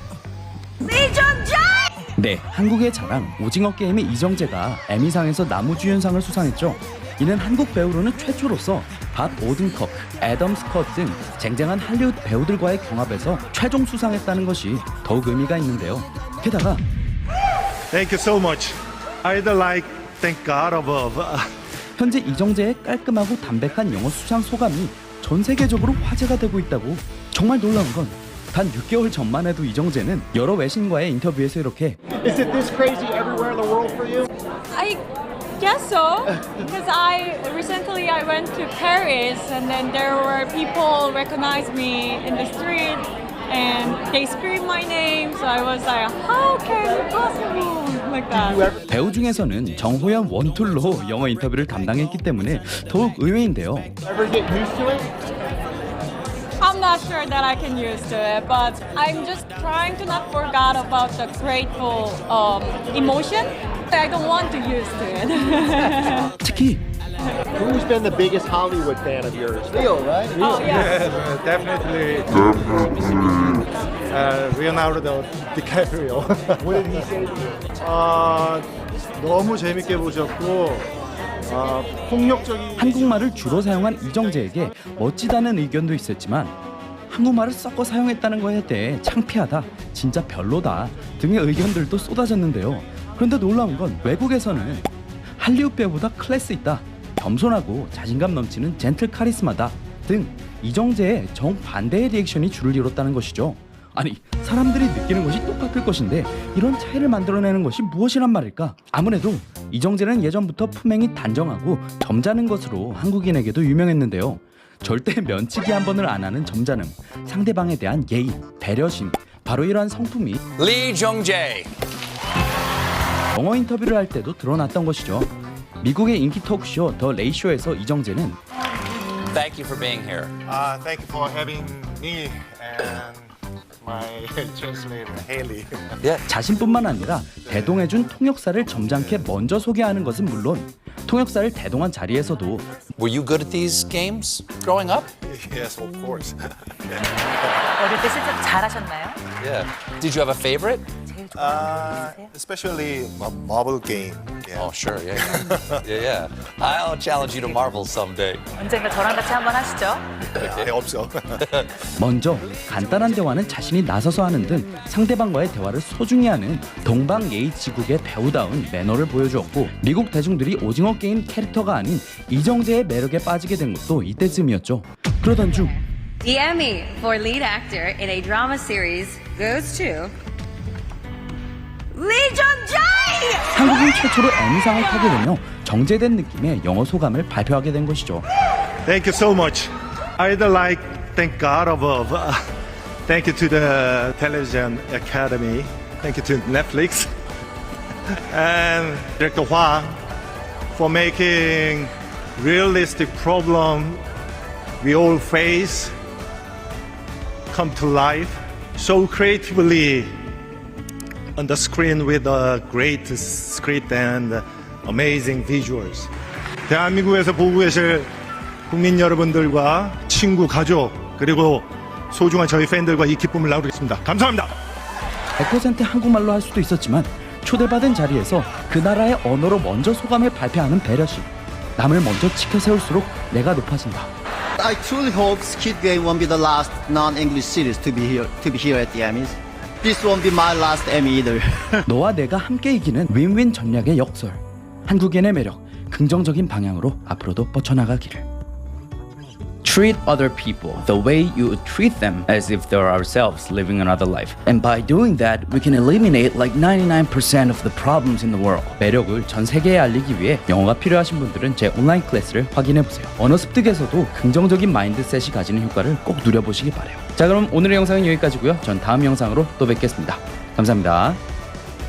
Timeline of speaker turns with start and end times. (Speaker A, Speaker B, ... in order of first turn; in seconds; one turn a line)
Speaker A: 0.8-2.0
Speaker B: 2.2-16.8
Speaker C: 17.9-21.4
Speaker B: 22.0-32.0
Speaker D: 32.3-32.5
Speaker E: 34.7-35.0
Speaker E: 35.6-48.7
Speaker B: 48.9-53.9
Speaker D: 54.1-55.0
Speaker E: 56.6-66.3
Speaker B: 66.4-66.8
Speaker D: 67.6-69.8
Speaker F: 69.8-70.3
Speaker C: 70.4-77.1
Speaker E: 70.4-70.9
Speaker C: 77.8-78.7
Speaker C: 79.2-80.9
Speaker C: 81.5-82.9
Speaker B: 82.8-86.5
Speaker B: 87.1-120.4
Speaker G: 120.6-121.7
Speaker B: 123.3-125.3
Speaker B: 125.8-128.4
Speaker G: 129.3-130.3
Speaker C: 130.4-135.9
Speaker B: 136.3-142.7
Speaker C: 137.5-137.8
Speaker G: 142.9-145.1
Speaker C: 145.2-147.1
Speaker H: 147.8-149.2
Speaker G: 149.4-150.9
Speaker H: 151.1-152.0
Speaker C: 151.3-155.8
Speaker G: 154.6-158.5
Speaker H: 158.6-160.0
Speaker C: 160.3-161.4
Speaker G: 160.4-160.7
Speaker B: 162.0-175.7
Speaker A: 175.4-180.1
Speaker A: 181.9-183.6
Speaker B: 183.5-188.2
Speaker C: 188.8-192.4
Speaker C: 193.1-197.1
Speaker C: 198.1-200.0
Speaker C: 200.7-204.0
Speaker C: 204.8-205.9
Speaker C: 207.5-210.2
Speaker C: 211.3-216.1
Speaker C: 216.7-218.1
Speaker C: 218.7-224.5
Speaker B: 225.4-234.1
Speaker F: 234.6-241.8
Speaker B: 241.8-248.2
Speaker B: 249.6-271.2